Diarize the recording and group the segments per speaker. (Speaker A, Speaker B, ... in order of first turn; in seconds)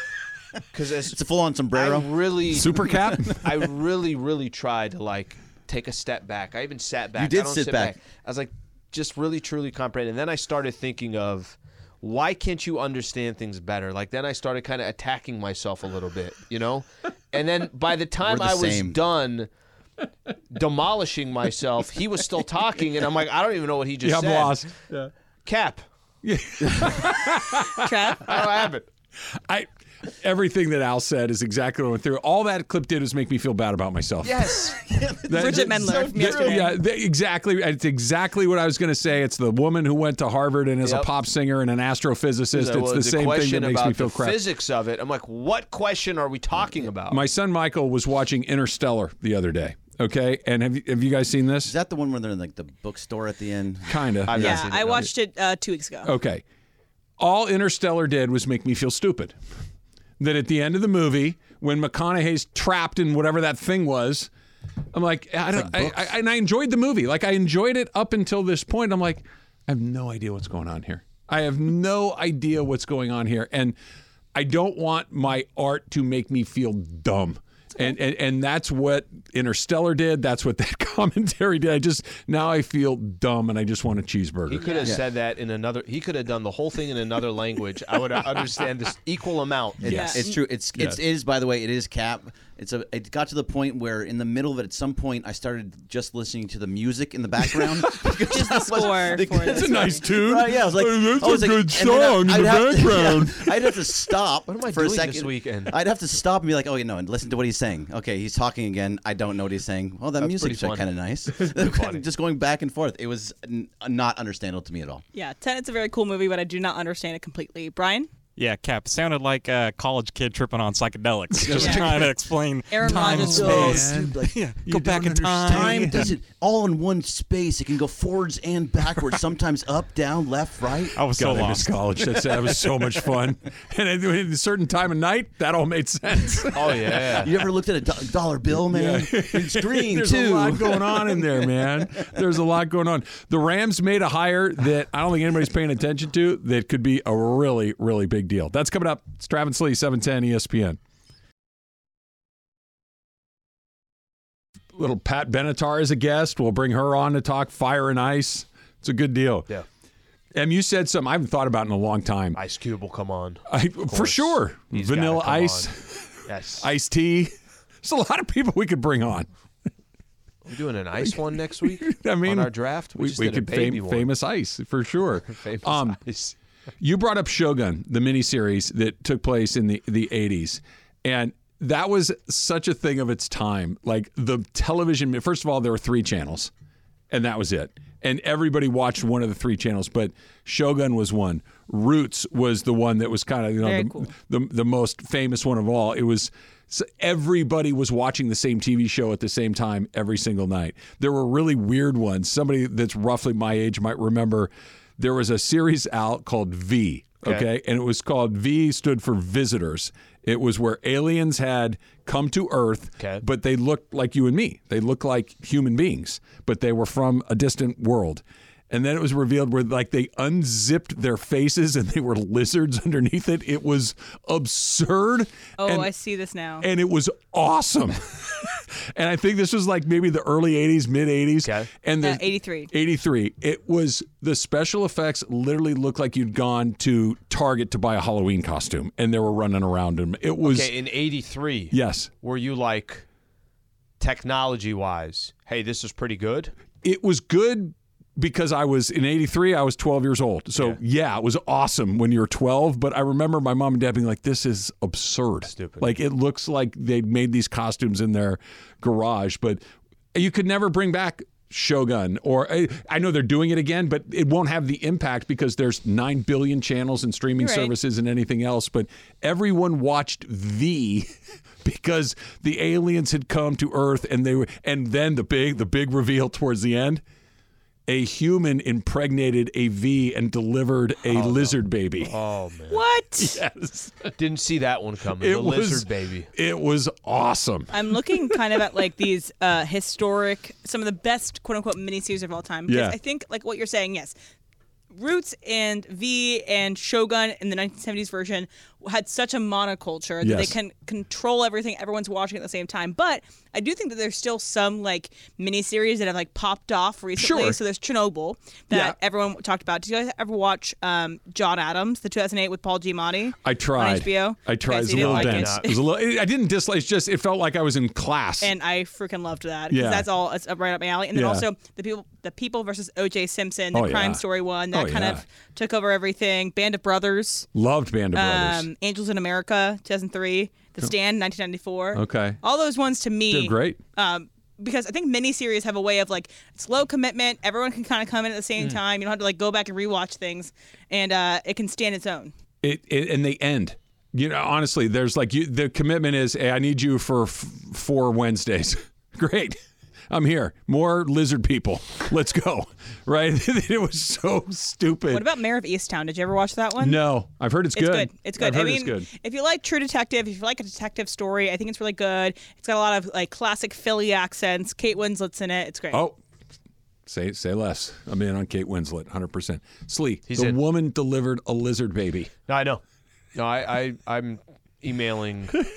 Speaker A: 0.7-1.2, 1.7-19.5, 20.5-24.7, 25.4-25.8, 28.3-28.9, 34.2-35.2, 36.0-36.6, 40.8-41.1, 42.5-47.2, 54.3-55.1, 84.5-90.2, 104.5-105.7, 110.2-112.0, 136.6-137.3, 162.3-165.7, 166.3-166.7, 170.4-174.1, 175.3-176.3, 207.2-207.5, 231.4-231.7, 240.4-243.1, 244.0-246.5, 255.5-255.9, 281.1-282.8, 284.2-286.3, 314.9-315.7, 370.3-370.6, 372.5-372.8, 373.3-375.6
Speaker B: 1.1-2.1, 2.6-2.9, 7.2-8.0, 18.2-18.9, 51.6-54.5, 65.6-65.9, 89.8-115.0, 121.4-122.1, 123.0-124.3, 125.5-133.0, 137.2-142.1
Speaker C: 2.5-3.5, 24.0-25.1, 26.2-28.3, 30.2-34.7, 35.2-44.4, 47.1-51.7, 53.9-54.6, 56.0-56.4, 57.2-59.3, 60.2-64.3, 64.9-73.8, 74.3-84.8, 97.5-103.8, 121.5-121.8, 122.9-126.2, 131.1-137.1, 138.6-150.8, 154.7-159.5, 160.3-162.4, 163.5-169.3, 171.6-176.0, 176.8-186.5, 187.1-225.9, 226.6-240.7, 241.7-242.1, 246.8-259.6, 260.1-271.1, 271.6-277.0, 277.9-282.1, 283.2-284.1, 285.2-288.4, 292.7-293.0, 300.2-300.6, 307.2-307.6, 308.7-309.0, 313.4-318.5, 319.7-320.1, 321.1-321.5, 323.7-325.2, 327.5-328.7, 331.9-332.4, 333.3-333.8, 342.6-349.6, 350.1-355.3, 356.8-359.1, 365.9-366.2, 367.1-372.3
Speaker D: 27.8-28.3, 35.3-36.8, 54.4-56.1, 84.6-85.0, 89.8-90.4, 98.1-100.1, 115.1-118.1, 121.5-121.9, 122.7-123.8, 193.6-194.1, 225.6-226.7, 232.0-232.7, 267.3-267.7, 282.7-283.4, 287.7-294.1, 294.9-315.8, 318.4-327.5, 328.1-342.3, 355.1-357.0, 357.7-366.0
Speaker E: 118.4-126.1, 130.9-131.8